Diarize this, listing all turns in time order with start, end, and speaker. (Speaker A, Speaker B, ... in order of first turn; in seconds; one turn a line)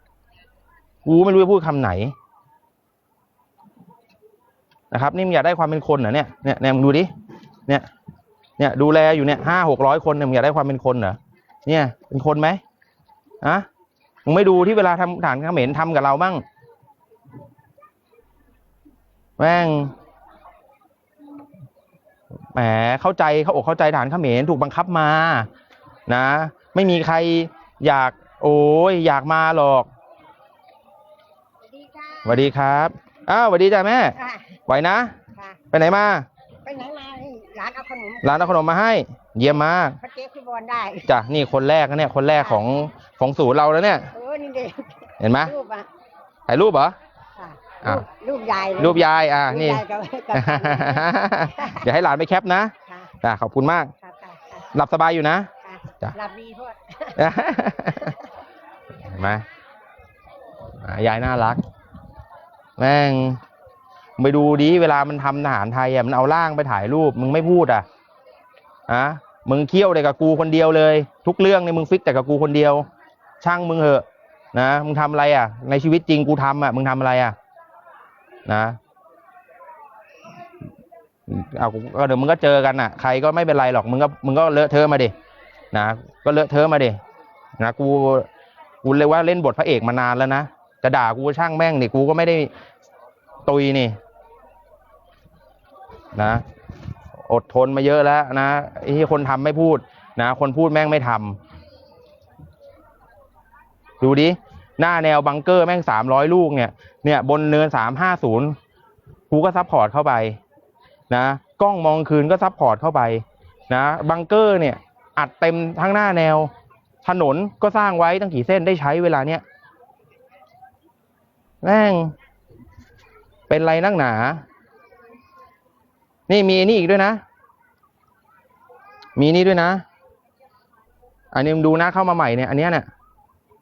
Speaker A: 1.0-2.1
Speaker A: 4.9-7.1
Speaker A: 8.6-12.6
Speaker A: 14.2-16.4
Speaker A: 19.4-19.9
Speaker A: 22.5-25.5
Speaker A: 26.1-29.9
Speaker B: 31.7-32.4
Speaker A: 32.2-34.1
Speaker B: 34.2-34.5
Speaker A: 34.7-35.1
Speaker A: 35.7-36.2
Speaker B: 36.6-38.4
Speaker A: 38.2-40.0
Speaker B: 40.0-41.1
Speaker A: 41.0-44.1
Speaker B: 44.1-45.9
Speaker A: 45.2-45.5
Speaker A: 46.5-46.9
Speaker B: 47.4-51.8
Speaker A: 48.8-49.8
Speaker A: 50.3-53.9
Speaker B: 54.0-54.6
Speaker A: 54.7-56.1
Speaker B: 55.6-57.2
Speaker A: 57.1-58.2
Speaker A: 59.0-59.4
Speaker A: 60.8-61.6
Speaker A: 62.8-63.4
Speaker A: 64.2-67.8
Speaker A: 68.9-72.8
Speaker A: 73.4-77.3
Speaker A: 78.5-78.8
Speaker A: 81.3-85.1
Speaker A: 85.7-87.0
Speaker A: 87.6-88.3
Speaker A: 88.8-92.5
Speaker A: 93.4-94.0
Speaker A: 96.1-96.4
Speaker A: 97.2-101.4
Speaker A: 104.0-108.6
Speaker A: 109.3-110.4
Speaker A: 111.1-116.5
Speaker A: 117.0-119.4
Speaker A: 121.6-122.1
Speaker A: 123.5-124.4
Speaker A: 126.3-127.2
Speaker A: 129.2-129.8
Speaker A: 131.3-132.9